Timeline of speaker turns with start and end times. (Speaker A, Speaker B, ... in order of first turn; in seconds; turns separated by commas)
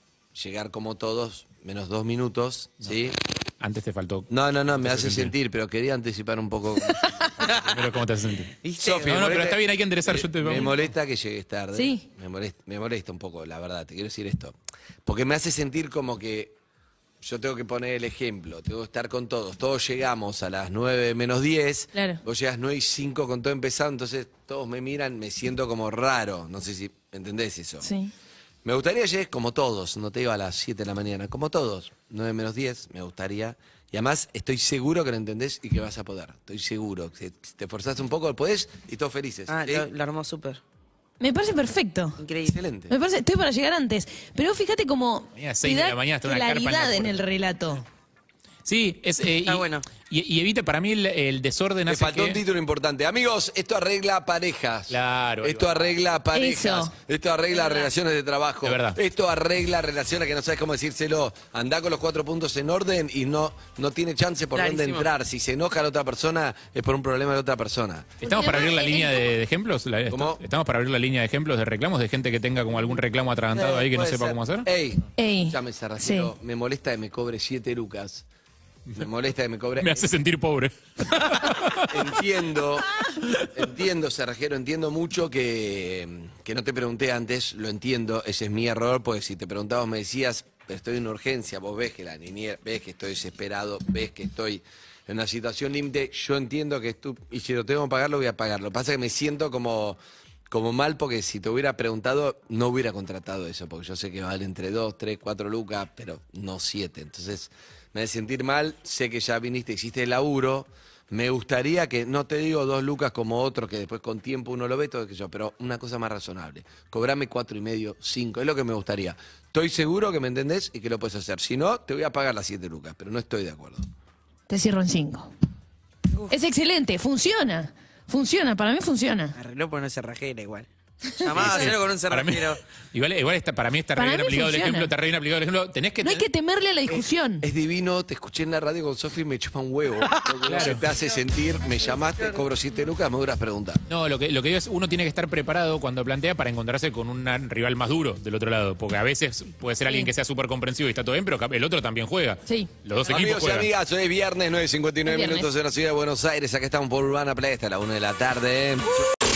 Speaker A: 0.3-3.2, Speaker B: 3.6-5.3, Speaker A: 4.3-7.5, Speaker C: 6.9-7.3, Speaker D: 7.4-7.7, Speaker B: 7.6-8.5, Speaker D: 8.6-9.2, Speaker A: 8.8-16.6, Speaker B: 9.1-10.8, Speaker C: 11.8-12.1, Speaker A: 17.2-27.9, Speaker C: 21.9-22.2, Speaker C: 27.8-28.1, Speaker A: 28.6-39.9, Speaker D: 39.5-40.6, Speaker C: 41.2-42.2, Speaker D: 42.2-42.6, Speaker A: 42.5-42.9, Speaker C: 42.9-47.8, Speaker B: 45.4-47.2, Speaker B: 48.6-52.4, Speaker D: 49.5-49.9, Speaker A: 51.9-68.2, Speaker B: 54.9-55.9, Speaker C: 56.3-56.9, Speaker D: 57.5-57.9, Speaker B: 58.6-59.0, Speaker D: 64.5-65.1, Speaker C: 68.2-69.3, Speaker B: 68.2-74.7, Speaker A: 70.1-70.4, Speaker A: 73.5-78.3, Speaker C: 75.2-76.3, Speaker A: 79.0-80.0, Speaker B: 79.8-82.1, Speaker A: 81.9-83.0, Speaker A: 83.5-123.9, Speaker C: 124.5-125.3, Speaker C: 126.3-129.3, Speaker D: 129.3-132.6, Speaker B: 131.3-136.2, Speaker C: 134.0-134.9, Speaker C: 136.0-137.4, Speaker A: 136.9-143.8, Speaker B: 140.5-140.8, Speaker B: 143.9-153.7, Speaker A: 153.1-158.9, Speaker C: 155.1-155.5